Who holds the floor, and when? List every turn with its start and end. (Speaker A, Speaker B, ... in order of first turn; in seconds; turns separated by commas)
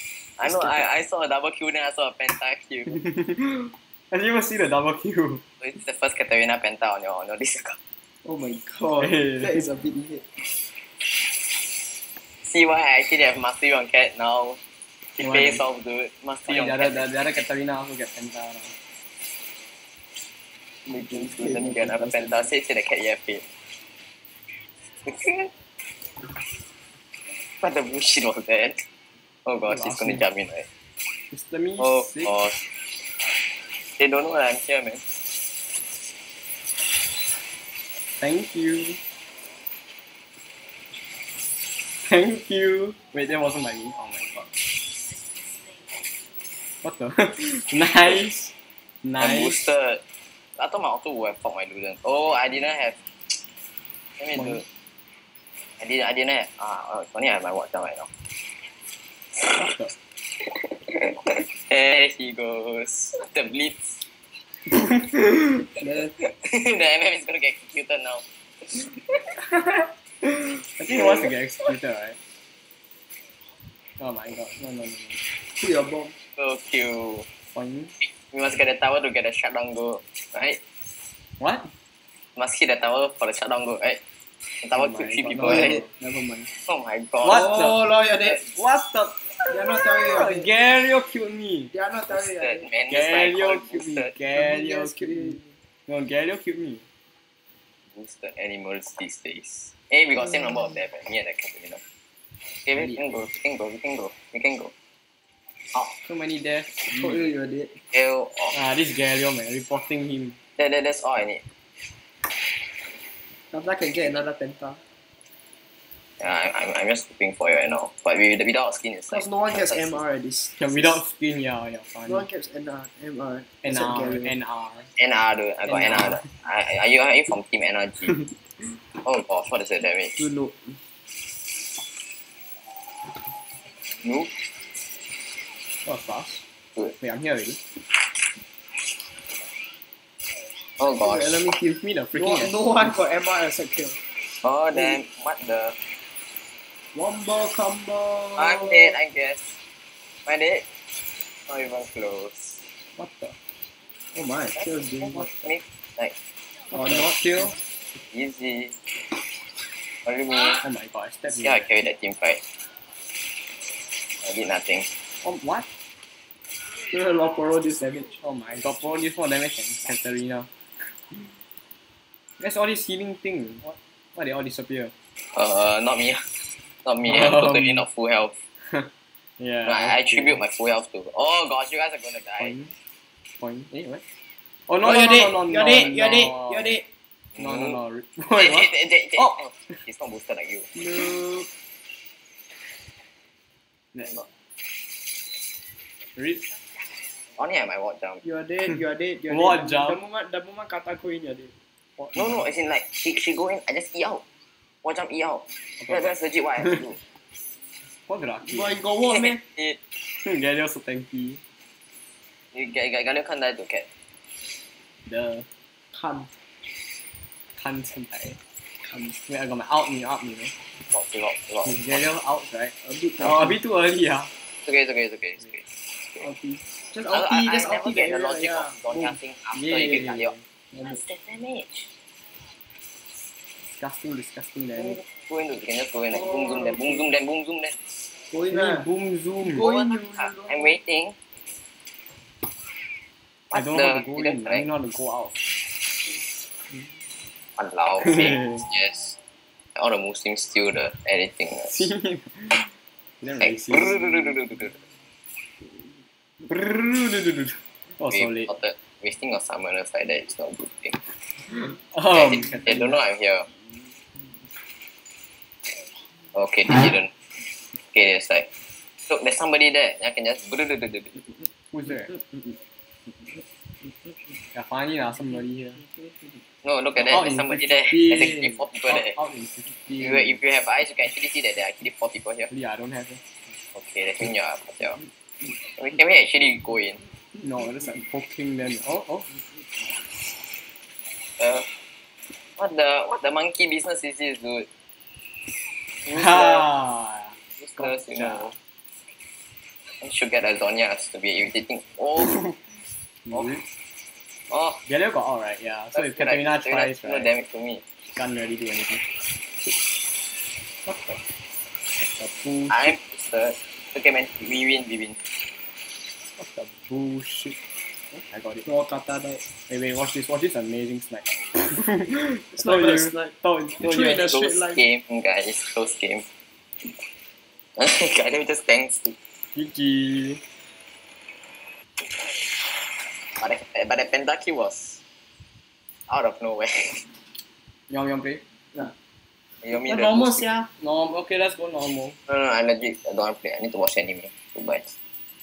Speaker A: 0.4-3.0, Speaker B: 0.4-0.9, Speaker B: 2.9-5.4, Speaker A: 5.6-7.8, Speaker C: 8.2-10.2, Speaker B: 9.0-9.6, Speaker A: 12.4-14.6, Speaker A: 15.2-17.1, Speaker B: 15.2-15.6, Speaker B: 16.4-18.7, Speaker A: 20.9-23.4, Speaker C: 21.1-22.5, Speaker A: 25.0-25.5, Speaker A: 27.6-28.8, Speaker A: 29.4-30.7, Speaker B: 29.7-30.2, Speaker B: 31.3-32.4, Speaker A: 31.8-32.6, Speaker A: 34.0-35.0, Speaker B: 38.2-39.0, Speaker B: 42.0-44.5, Speaker B: 46.8-49.7, Speaker A: 49.2-50.0, Speaker A: 50.6-53.4, Speaker A: 54.2-54.6, Speaker B: 54.3-54.6, Speaker A: 55.8-58.1, Speaker A: 59.4-59.7, Speaker B: 59.5-59.9, Speaker A: 60.4-64.0, Speaker B: 65.0-65.4, Speaker C: 65.8-66.1, Speaker A: 66.2-69.0, Speaker B: 69.6-72.2, Speaker A: 70.9-71.3, Speaker B: 74.0-75.2, Speaker C: 75.5-76.1, Speaker A: 76.3-77.3, Speaker B: 77.5-77.9, Speaker A: 78.0-80.6, Speaker B: 81.4-81.7, Speaker A: 82.3-84.0, Speaker A: 84.6-85.8, Speaker B: 84.7-85.9, Speaker C: 85.4-86.5, Speaker A: 86.7-87.5, Speaker B: 87.2-87.8, Speaker C: 87.2-88.5, Speaker B: 88.4-91.7, Speaker C: 89.5-90.5, Speaker C: 91.7-92.7, Speaker A: 92.1-94.1, Speaker B: 92.9-96.8, Speaker C: 94.3-95.5, Speaker A: 97.9-101.8, Speaker A: 102.6-104.7, Speaker B: 102.7-103.0, Speaker B: 106.0-107.2, Speaker C: 106.8-107.8, Speaker A: 107.9-108.5, Speaker B: 108.5-110.4, Speaker A: 110.6-111.4, Speaker C: 113.5-114.8, Speaker A: 116.2-120.0, Speaker C: 119.1-120.9, Speaker B: 120.6-122.3, Speaker C: 122.0-124.3, Speaker B: 123.6-124.9, Speaker A: 125.0-128.2, Speaker B: 125.7-126.3, Speaker A: 129.0-130.2, Speaker C: 130.2-130.8, Speaker A: 134.0-134.5, Speaker B: 135.8-136.4, Speaker B: 137.0-137.6, Speaker A: 140.8-141.5, Speaker C: 141.0-144.0, Speaker B: 141.5-142.9, Speaker A: 144.4-145.8, Speaker C: 146.9-148.9, Speaker A: 148.4-149.6, Speaker A: 150.2-150.7, Speaker A: 151.5-152.6, Speaker B: 152.9-153.3, Speaker C: 154.1-155.3, Speaker A: 154.6-156.2, Speaker C: 156.7-157.4, Speaker B: 156.7-157.6, Speaker A: 158.1-158.8, Speaker A: 160.0-160.6, Speaker B: 160.6-161.7, Speaker A: 161.3-162.4, Speaker A: 164.2-164.9, Speaker B: 165.2-165.7, Speaker C: 166.9-168.1, Speaker B: 168.2-170.9, Speaker B: 172.4-174.9, Speaker A: 175.2-178.4, Speaker B: 177.0-177.8, Speaker B: 178.6-180.4, Speaker A: 179.6-182.5, Speaker B: 182.4-182.7, Speaker B: 183.4-184.0, Speaker B: 184.7-186.7, Speaker C: 184.8-186.8, Speaker A: 187.3-187.8, Speaker B: 187.4-189.8, Speaker A: 188.4-190.7, Speaker C: 190.8-191.5, Speaker B: 193.9-194.2, Speaker B: 196.1-196.4, Speaker A: 197.3-198.2, Speaker C: 198.2-201.5, Speaker B: 199.3-200.0, Speaker B: 202.0-202.4, Speaker A: 202.1-204.2, Speaker A: 204.8-207.0, Speaker B: 205.8-206.1, Speaker B: 208.1-208.8, Speaker C: 208.4-209.4, Speaker A: 209.1-209.8, Speaker B: 210.2-211.4, Speaker A: 212.5-213.9, Speaker B: 215.1-215.5, Speaker C: 215.9-216.3, Speaker B: 217.6-218.4, Speaker C: 218.8-219.2, Speaker B: 219.3-220.5, Speaker A: 220.8-222.0, Speaker B: 221.6-224.3, Speaker C: 222.8-223.6, Speaker A: 224.6-225.7, Speaker C: 226.2-229.1, Speaker A: 227.1-231.9, Speaker B: 229.5-230.4, Speaker C: 230.7-231.0, Speaker B: 233.7-235.0, Speaker A: 234.8-237.9, Speaker C: 236.1-237.0, Speaker C: 238.3-238.9, Speaker B: 238.5-239.7, Speaker C: 239.4-240.8, Speaker A: 239.6-241.2, Speaker A: 243.5-244.7, Speaker B: 243.5-245.3, Speaker A: 247.6-249.2, Speaker B: 248.0-248.6, Speaker A: 249.8-251.9, Speaker B: 251.7-254.0, Speaker A: 253.4-254.8, Speaker B: 256.5-258.5, Speaker A: 258.1-261.0, Speaker B: 261.5-263.0, Speaker A: 262.1-263.5, Speaker A: 266.3-267.1, Speaker A: 267.9-268.5, Speaker A: 269.1-271.3, Speaker B: 271.7-272.2, Speaker B: 274.5-275.8, Speaker A: 276.6-279.1, Speaker B: 277.0-280.2, Speaker A: 280.0-282.5, Speaker B: 282.5-283.2, Speaker A: 283.7-285.0, Speaker A: 285.6-287.0, Speaker B: 287.4-289.3, Speaker A: 291.4-291.7, Speaker A: 292.6-294.7, Speaker A: 296.1-296.7, Speaker B: 296.1-298.6, Speaker A: 297.6-298.5, Speaker A: 300.0-302.6, Speaker B: 303.3-303.6, Speaker A: 303.3-303.6, Speaker A: 304.5-304.8, Speaker B: 304.8-307.3, Speaker A: 305.9-307.8, Speaker B: 308.1-309.1, Speaker B: 310.9-311.2, Speaker B: 312.0-313.0, Speaker A: 312.7-315.2, Speaker B: 316.4-317.6, Speaker B: 318.2-318.7, Speaker C: 318.6-319.4, Speaker B: 319.7-324.3, Speaker C: 322.5-324.9, Speaker A: 324.2-326.3, Speaker A: 327.8-329.1, Speaker B: 329.5-330.4, Speaker A: 333.4-335.0, Speaker A: 336.1-337.1, Speaker B: 337.9-338.4, Speaker A: 339.6-340.5, Speaker C: 339.8-340.7, Speaker B: 340.8-342.2, Speaker A: 342.3-344.9